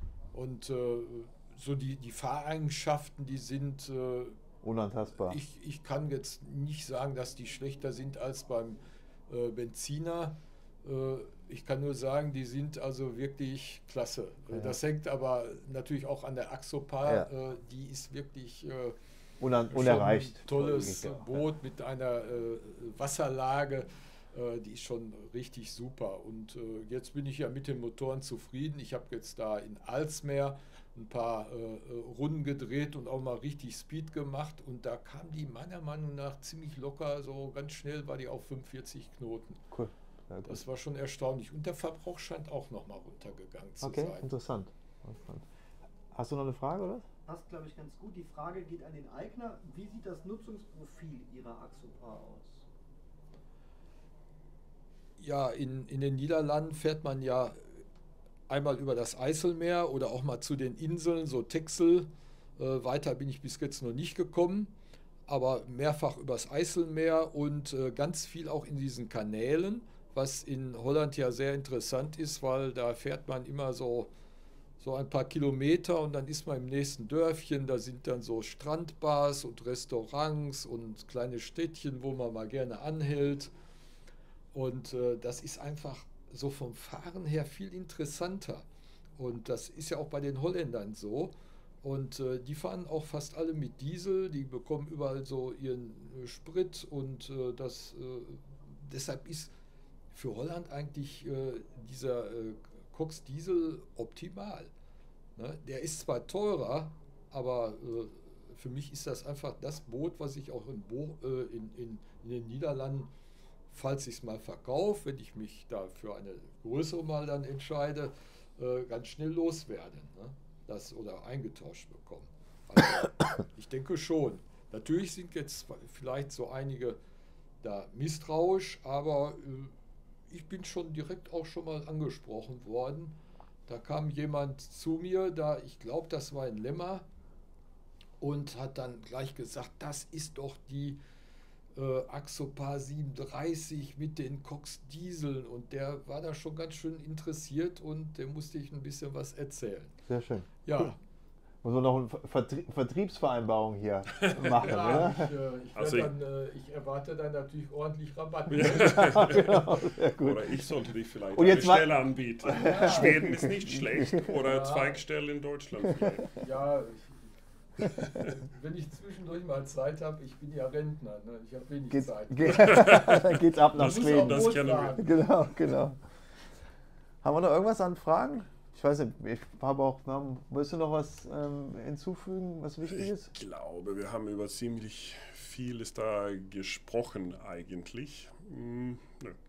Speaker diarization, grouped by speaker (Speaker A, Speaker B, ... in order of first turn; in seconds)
Speaker A: 0.3-4.4, 5.2-18.9, 19.7-39.6, 40.4-44.3, 55.2-57.7, 58.5-64.7, 65.3-74.1, 74.8-83.5, 84.5-88.7, 89.2-99.5, 100.1-104.7, 105.3-113.1, 113.7-127.0, 127.6-129.7, 130.3-133.2, 133.7-137.1, 138.2-141.0, 141.7-149.9, 150.6-151.0, 154.6-159.5, 162.5-163.3, 164.4-165.0, 166.4-167.3, 167.8-173.1, 173.8-175.1
Speaker B: 4.6-5.4, 19.4-21.4, 39.7-40.6, 43.8-45.5, 46.1-47.1, 150.1-150.9, 151.6-155.3, 158.6-160.7, 161.3-161.9, 162.4-164.4, 165.8-166.2, 171.9-176.0, 177.2-183.3
Speaker C: 47.2-52.6
Speaker D: 154.2-155.1, 155.7-156.1, 158.5-166.4, 172.5-175.1, 182.9-189.4